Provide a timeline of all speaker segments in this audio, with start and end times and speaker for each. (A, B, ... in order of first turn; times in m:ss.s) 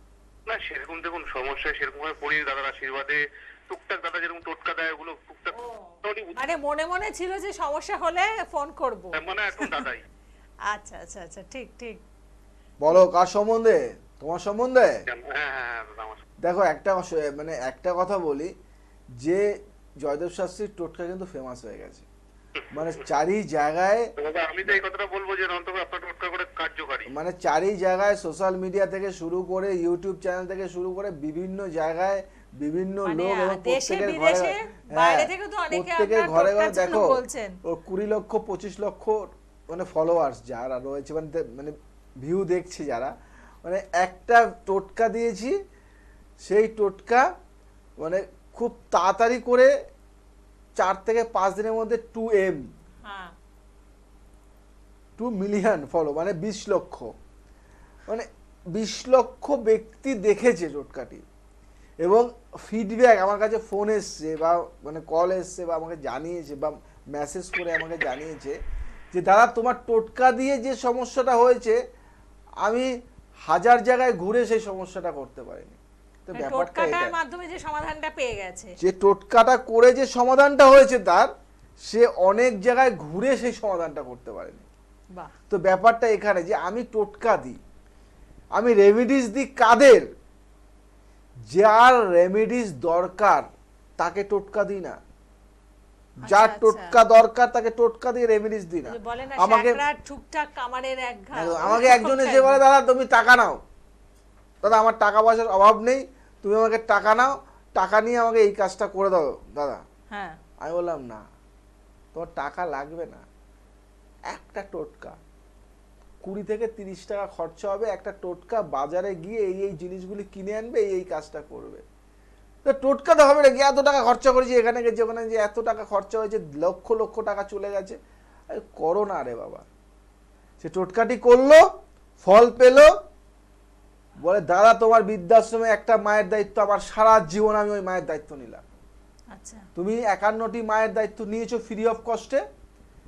0:00.5-0:06.4 A
0:05.5-0:09.8 B
0:09.1-0:10.0 A
0:10.7-0:12.0 B
0:12.8-0:15.0 C
0:15.1-0:16.2 A
0:16.4-0:18.5 C
0:19.2-0:19.5 C
0:20.0-0:22.1 C
0:22.7-0:24.1 C
0:24.2-0:27.1 A
0:27.1-0:43.1 C
0:33.0-0:37.6 B
0:43.6-0:45.6 C
0:46.4-0:47.2 C
0:48.0-0:49.7 C
0:50.8-0:52.6 C
0:53.0-0:53.3 B
0:55.2-0:57.1 C
0:58.1-1:01.2 C
1:02.0-1:08.6 C
1:09.1-1:11.8 C
1:12.6-1:12.9 C
1:13.5-1:17.1 C
1:16.3-1:18.7 B
1:18.8-1:21.3 C
1:21.8-1:24.7 C
1:25.5-1:27.6 C
1:28.5-1:30.1 C
1:31.5-1:33.5 C
1:34.0-1:35.0 C
1:36.2-1:39.8 C
1:36.2-1:37.0 B
1:38.8-1:42.6 B
1:41.3-1:43.6 C
1:44.6-1:49.8 C
1:50.1-1:50.4 B
1:50.6-1:51.2 C
1:52.1-1:53.2 C
1:54.3-1:55.2 C
1:56.2-2:01.8 C
2:02.6-2:08.0 C
2:08.5-2:09.6 C
2:10.6-2:11.6 C
2:12.2-2:12.9 C
2:14.2-2:18.7 C
2:19.3-2:19.7 B
2:19.8-2:22.4 C